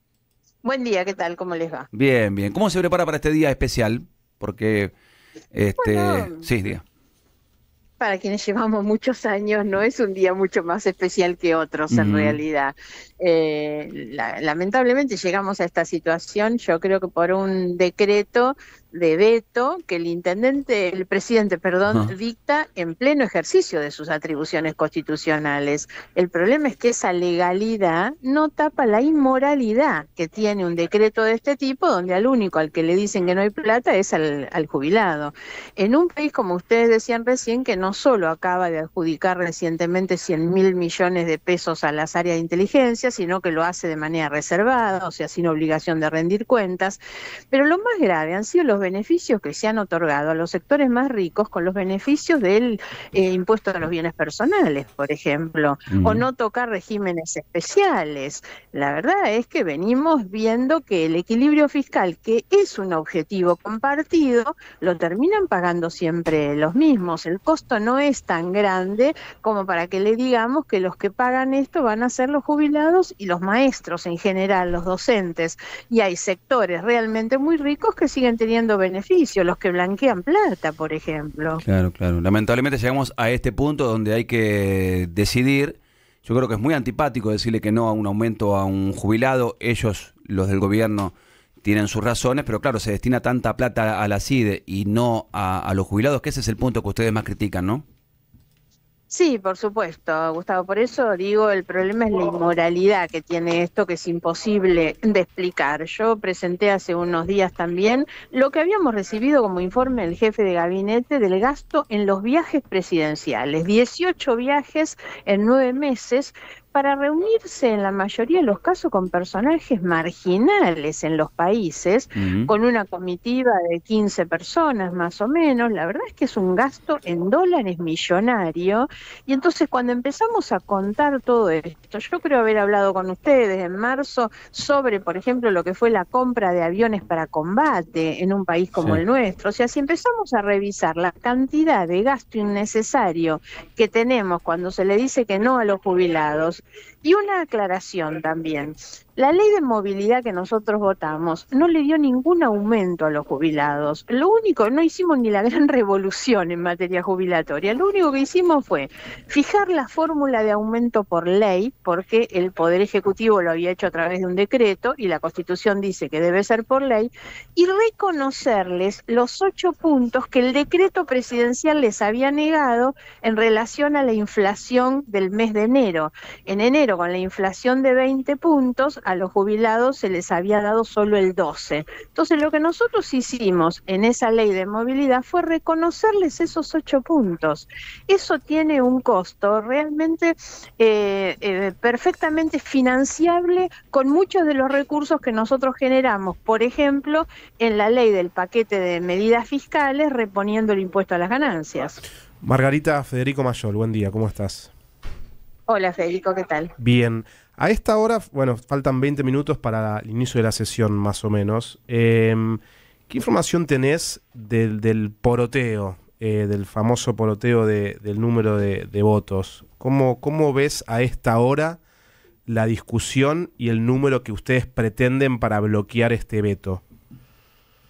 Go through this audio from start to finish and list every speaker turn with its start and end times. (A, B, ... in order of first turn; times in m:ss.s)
0:00.6-0:01.9 A
0:01.9-0:04.9 B
0:05.5-0:06.8 B
0:05.8-0:06.5 A
0:08.0-0:47.0 A
0:11.9-0:12.4 B
0:21.9-0:22.1 B
0:47.5-1:21.6 A
0:55.9-0:56.2 B
1:21.6-1:37.8 B
1:39.1-3:22.0 A
2:02.2-2:02.5 B
3:22.4-3:24.7 C
3:25.7-3:26.7 A
3:26.8-3:41.8 C
3:42.5-3:46.8 C